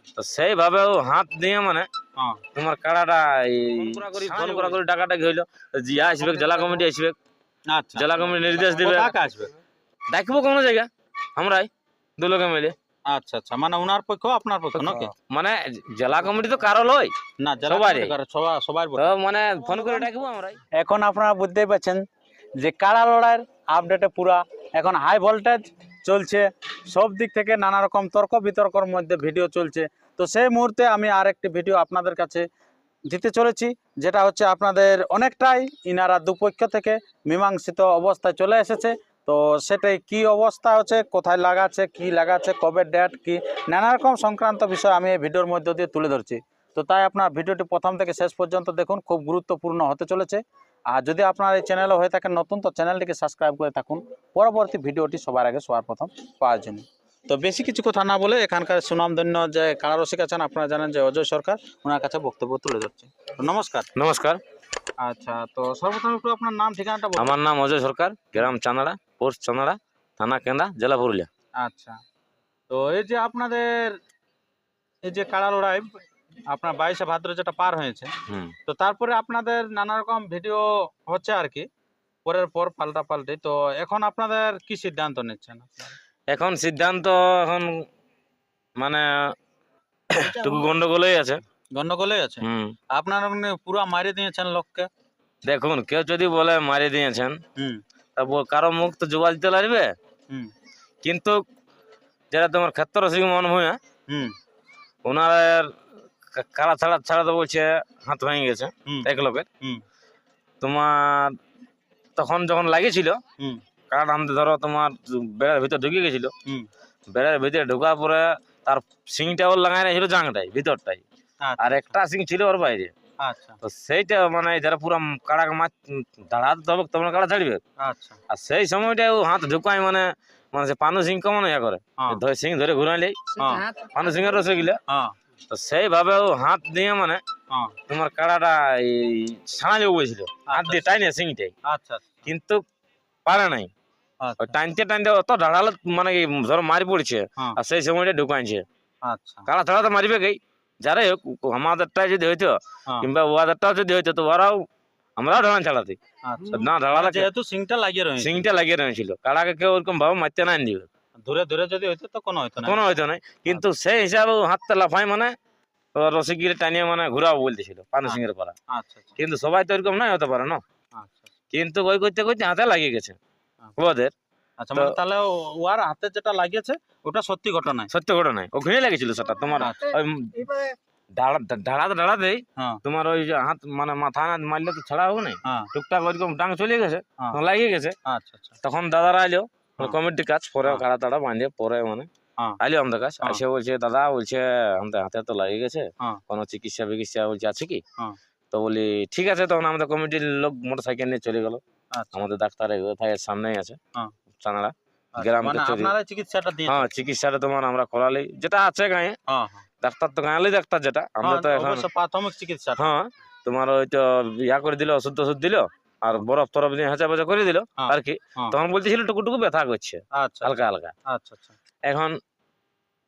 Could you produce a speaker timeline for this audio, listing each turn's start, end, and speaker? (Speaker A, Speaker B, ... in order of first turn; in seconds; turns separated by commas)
Speaker A: 0.2-1.9, Speaker A: 2.5-7.2, Speaker B: 3.8-4.8, Speaker B: 6.2-6.8, Speaker B: 7.7-9.5, Speaker A: 8.0-9.2, Speaker A: 10.1-12.7, Speaker B: 13.1-15.1, Speaker A: 14.8-17.1, Speaker B: 17.4-19.1, Speaker A: 17.7-18.1, Speaker A: 19.0-20.6, Speaker B: 19.7-20.1, Speaker B: 20.7-22.0, Speaker B: 22.6-32.5, Speaker B: 33.1-63.9, Speaker A: 64.0-64.4, Speaker B: 65.0-67.4, Speaker A: 67.2-71.3, Speaker B: 71.6-72.0, Speaker B: 72.7-74.0, Speaker B: 75.0-75.9, Speaker B: 76.5-78.1, Speaker A: 78.3-78.5, Speaker B: 78.7-81.7, Speaker B: 82.3-85.9, Speaker A: 86.3-87.8, Speaker A: 88.8-89.3, Speaker A: 90.1-91.4, Speaker B: 90.2-90.7, Speaker B: 91.8-94.9, Speaker A: 92.4-92.7, Speaker A: 95.5-97.4, Speaker A: 98.2-99.9, Speaker A: 101.0-101.4, Speaker A: 102.3-103.8, Speaker A: 105.0-105.7, Speaker A: 106.3-109.5, Speaker B: 108.9-109.8, Speaker A: 110.6-111.3, Speaker A: 112.2-113.2, Speaker A: 113.9-116.3, Speaker A: 117.1-121.0, Speaker B: 121.4-122.0, Speaker A: 121.6-122.9, Speaker B: 123.2-123.6, Speaker A: 123.6-127.6, Speaker B: 127.8-128.2, Speaker A: 128.3-134.8, Speaker B: 133.4-133.7, Speaker B: 134.9-135.1, Speaker A: 135.5-137.2, Speaker A: 137.9-141.5, Speaker B: 140.5-141.0, Speaker B: 141.7-142.2, Speaker A: 142.3-142.6, Speaker A: 143.3-143.7, Speaker B: 144.2-144.6, Speaker A: 144.4-148.6, Speaker B: 149.0-149.5, Speaker A: 149.5-154.6, Speaker A: 155.2-156.0, Speaker B: 156.2-158.4, Speaker A: 156.5-157.3, Speaker A: 158.2-160.9, Speaker B: 161.2-162.8, Speaker A: 162.6-165.3, Speaker A: 166.0-168.6, Speaker B: 168.1-169.2, Speaker A: 169.2-170.6, Speaker B: 171.0-171.3, Speaker A: 171.5-173.2, Speaker A: 173.8-174.1, Speaker B: 174.6-177.9, Speaker A: 177.9-180.7, Speaker B: 179.6-180.0, Speaker A: 181.2-188.0, Speaker B: 188.1-188.6, Speaker A: 188.6-192.1, Speaker A: 192.6-197.8, Speaker A: 198.5-201.6, Speaker B: 201.9-202.3, Speaker A: 202.2-203.8, Speaker A: 204.4-205.9, Speaker B: 205.2-206.9, Speaker A: 206.7-209.2, Speaker B: 209.3-209.7, Speaker A: 209.8-211.8, Speaker B: 211.2-212.8, Speaker A: 212.8-220.9, Speaker B: 217.8-218.6, Speaker B: 220.1-220.5, Speaker B: 221.1-221.5, Speaker A: 221.9-222.2